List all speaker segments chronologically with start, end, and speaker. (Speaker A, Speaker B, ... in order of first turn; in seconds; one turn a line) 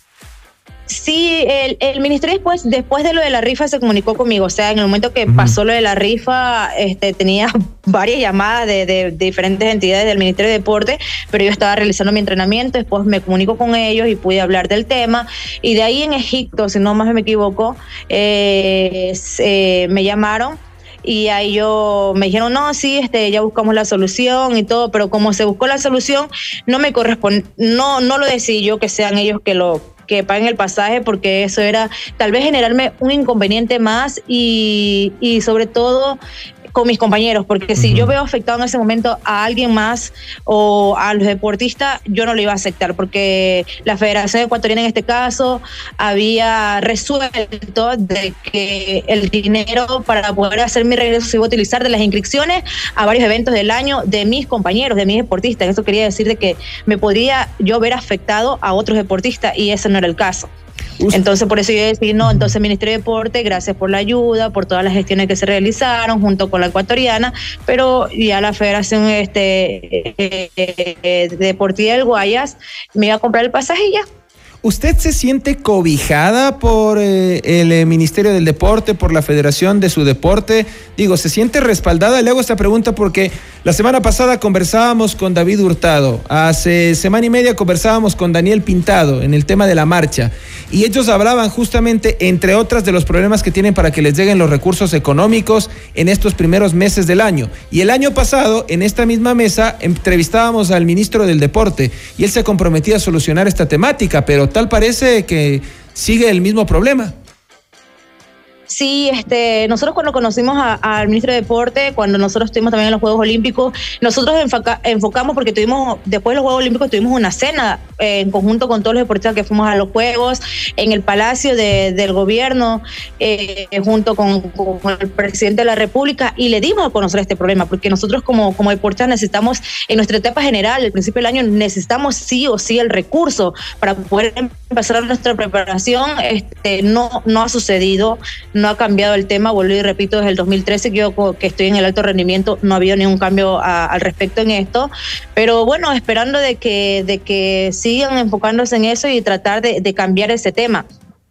Speaker A: 0.9-36.2
Speaker B: 5.3-5.5
Speaker A: 36.7-60.5
Speaker B: 37.8-38.1
Speaker A: 61.1-74.0
Speaker B: 74.6-107.1
Speaker A: 108.7-150.8